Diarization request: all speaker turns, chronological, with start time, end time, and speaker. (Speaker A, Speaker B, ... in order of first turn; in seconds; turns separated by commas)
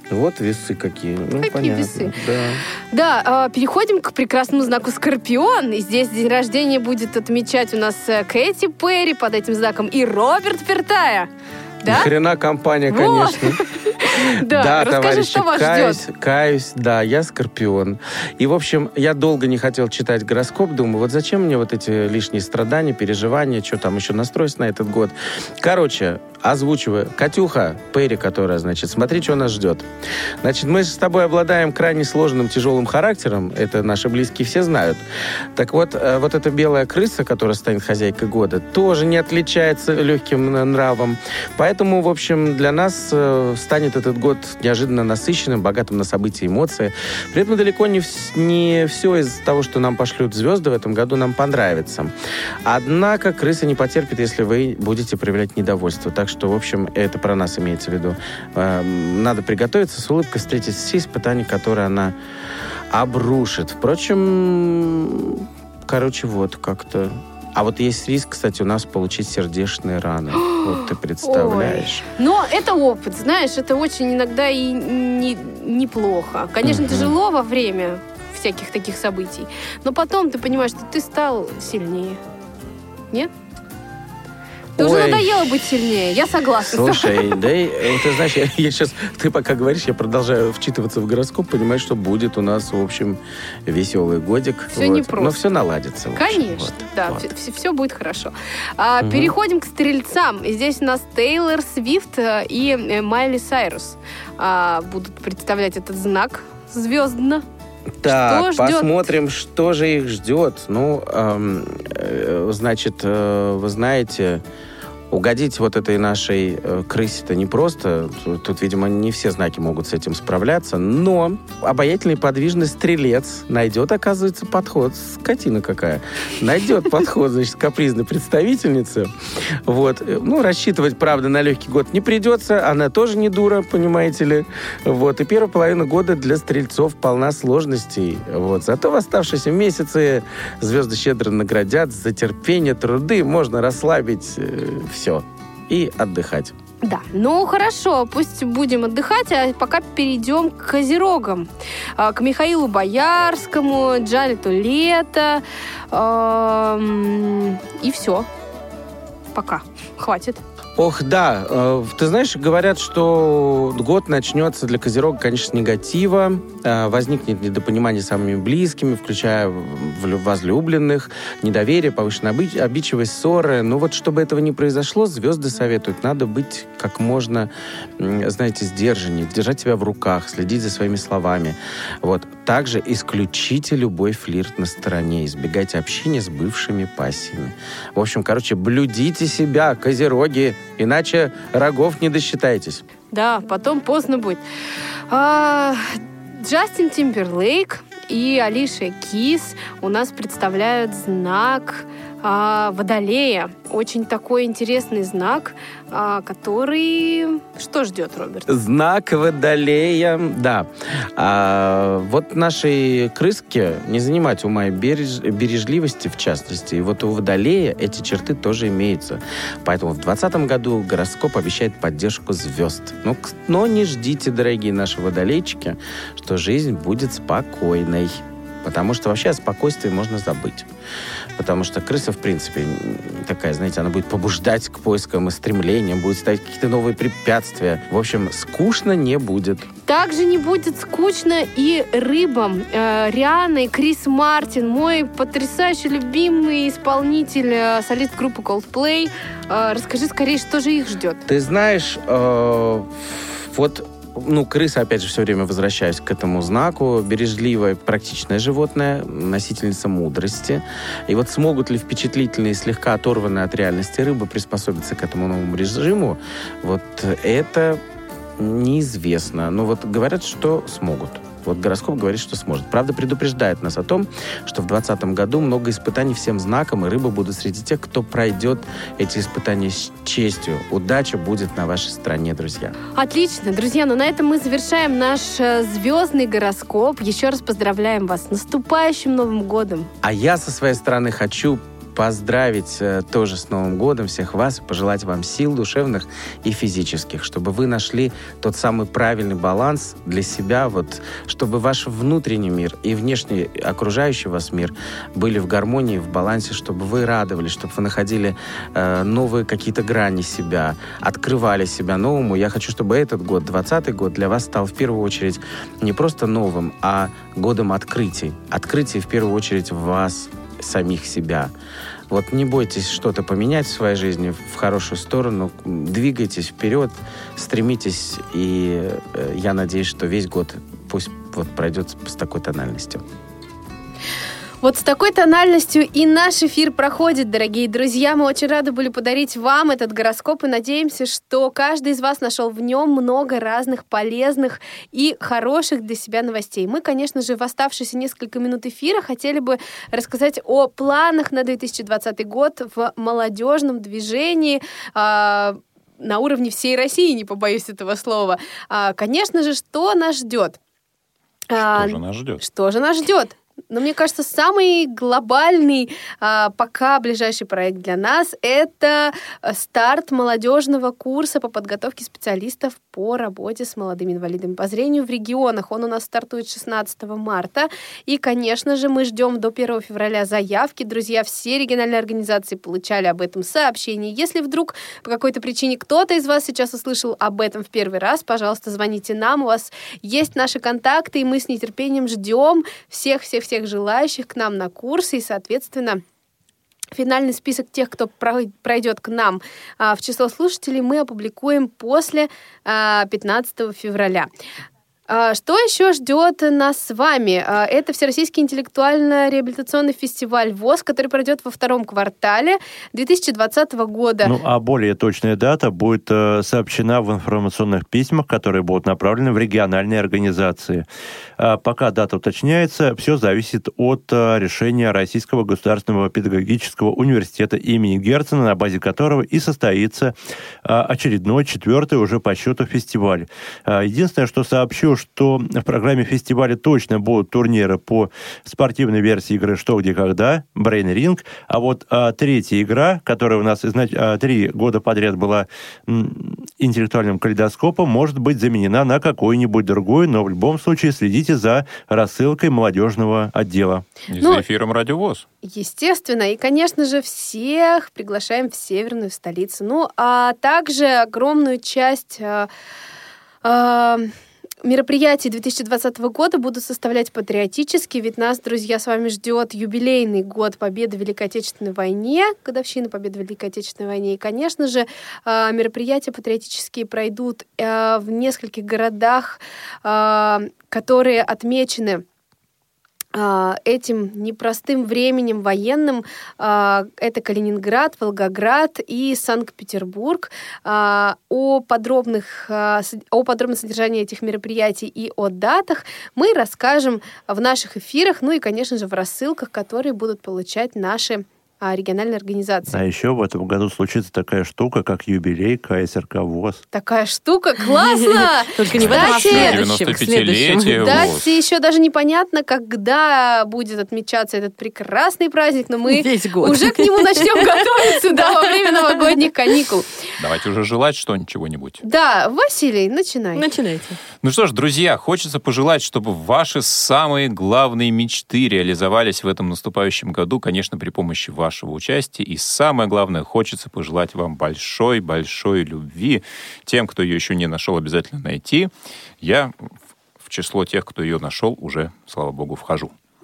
Speaker A: 0.1-2.6, Speaker B: 1.4-2.2, Speaker B: 2.9-11.3, Speaker A: 11.8-13.6, Speaker B: 12.9-16.0, Speaker A: 14.1-29.9, Speaker A: 30.4-35.0, Speaker A: 35.6-52.1, Speaker A: 52.6-62.1, Speaker A: 62.9-72.0, Speaker B: 70.3-82.2, Speaker A: 76.6-77.1, Speaker A: 84.8-85.2, Speaker B: 84.8-87.2, Speaker A: 86.7-97.2, Speaker B: 94.8-95.4, Speaker B: 96.2-107.5, Speaker A: 99.0-99.3, Speaker A: 108.0-114.4, Speaker B: 108.1-109.1, Speaker A: 115.1-129.1, Speaker A: 129.7-146.5, Speaker B: 146.8-158.3, Speaker B: 159.3-160.4, Speaker A: 160.8-192.8, Speaker B: 193.1-194.4, Speaker B: 195.1-208.5, Speaker A: 208.5-230.7, Speaker A: 231.4-239.7, Speaker B: 239.9-251.2, Speaker A: 251.3-267.8, Speaker A: 268.4-282.8, Speaker B: 282.9-289.9, Speaker A: 290.0-321.5, Speaker A: 322.1-333.0, Speaker B: 334.6-360.6, Speaker B: 361.5-396.0, Speaker C: 361.6-362.4, Speaker B: 396.9-404.3, Speaker B: 405.1-414.3, Speaker D: 414.2-420.9, Speaker D: 421.4-453.9, Speaker C: 454.1-455.3, Speaker B: 455.4-462.5, Speaker B: 463.4-464.1, Speaker B: 464.6-482.0, Speaker B: 483.1-502.8, Speaker D: 502.7-506.6, Speaker B: 506.7-509.6, Speaker E: 507.8-511.2, Speaker C: 508.7-511.2, Speaker B: 510.8-520.0, Speaker E: 515.9-519.3, Speaker C: 520.2-521.8, Speaker B: 521.8-523.4, Speaker E: 523.4-524.0, Speaker C: 524.2-542.9